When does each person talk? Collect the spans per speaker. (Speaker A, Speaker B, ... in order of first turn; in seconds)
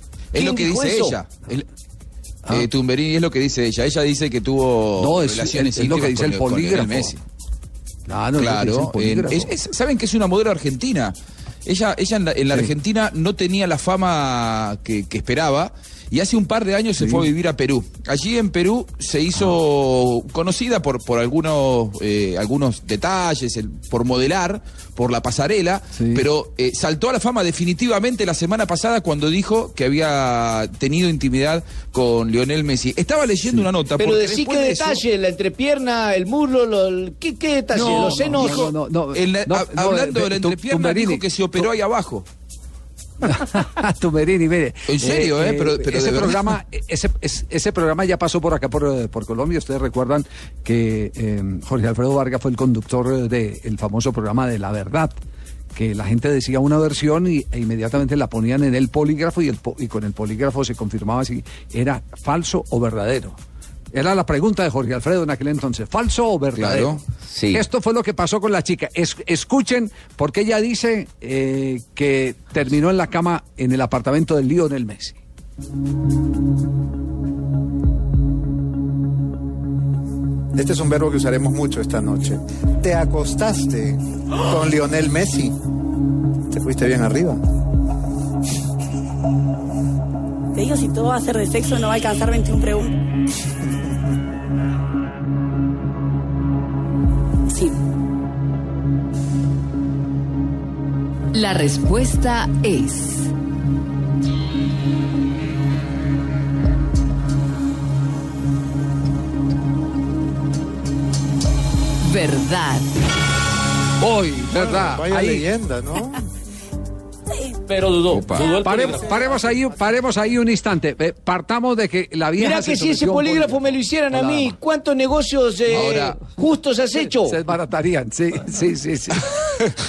Speaker A: 0.3-1.6, 2.5-7.2, 8.4-35.0, 37.7-42.3, 44.9-46.5, 66.5-67.0, 118.1-118.6, 125.7-126.3
Speaker B: 0.4-1.2, 34.0-38.6, 112.1-112.5, 122.4-127.3
Speaker C: 5.0-7.2, 8.1-9.6, 17.0-17.3, 26.0-26.3, 37.7-41.7, 43.2-55.2, 55.7-63.4, 63.9-75.2, 114.0-115.5, 118.5-124.6, 127.0-129.3
Speaker D: 80.5-85.6, 86.5-87.4, 114.5-116.3, 118.8-119.8
Speaker E: 90.5-93.0, 97.5-97.8, 117.3-117.6, 118.4-118.7
Speaker F: 101.3-103.2, 112.1-112.8